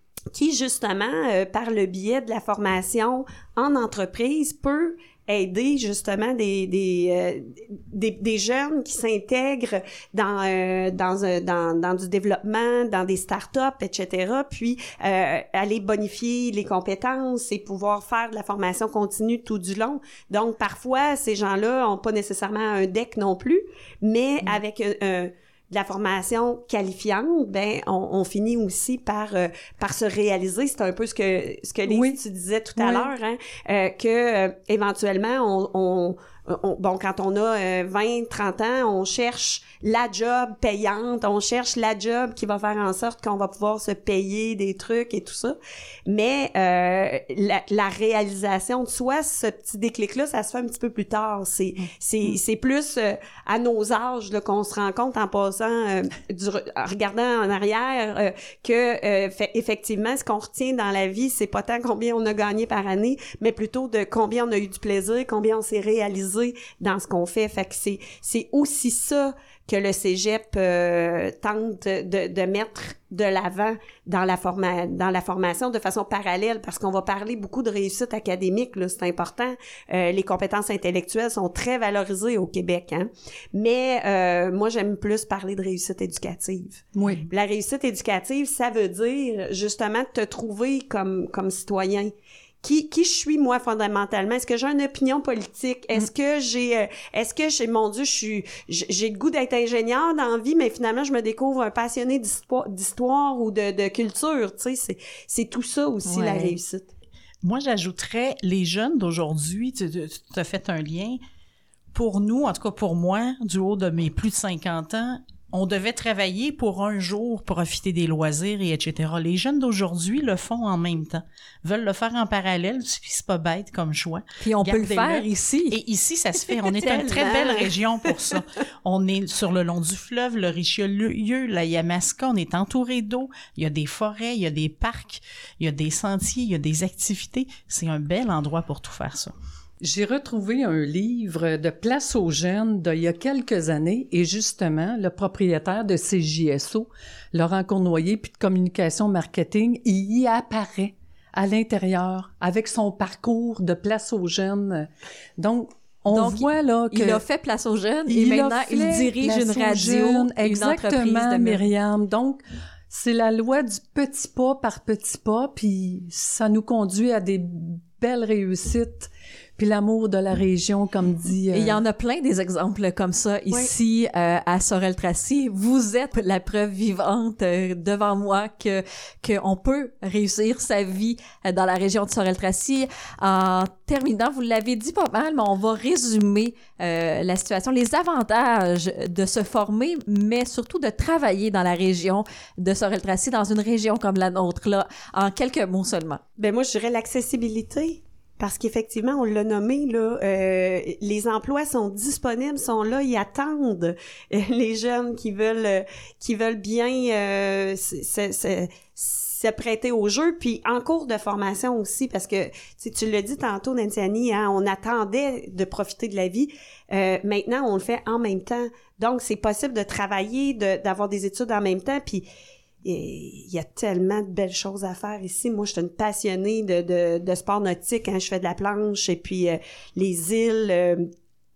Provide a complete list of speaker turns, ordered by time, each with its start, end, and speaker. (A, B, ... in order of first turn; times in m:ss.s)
0:00.3-0:45.6 A
0:31.8-0:32.2 B
0:32.8-0:33.1 B
0:46.1-1:32.1 A
1:27.0-1:27.3 B
1:32.6-1:46.9 A
1:46.0-1:46.6 C
1:47.4-1:51.2 D
1:51.9-2:19.3 D
2:04.4-2:05.8 C
2:06.7-2:07.8 A
2:19.8-2:37.2 B
2:36.1-2:41.7 C
2:38.1-2:51.8 B
2:51.5-3:16.2 C
3:16.4-3:42.2 A
3:42.8-3:51.1 A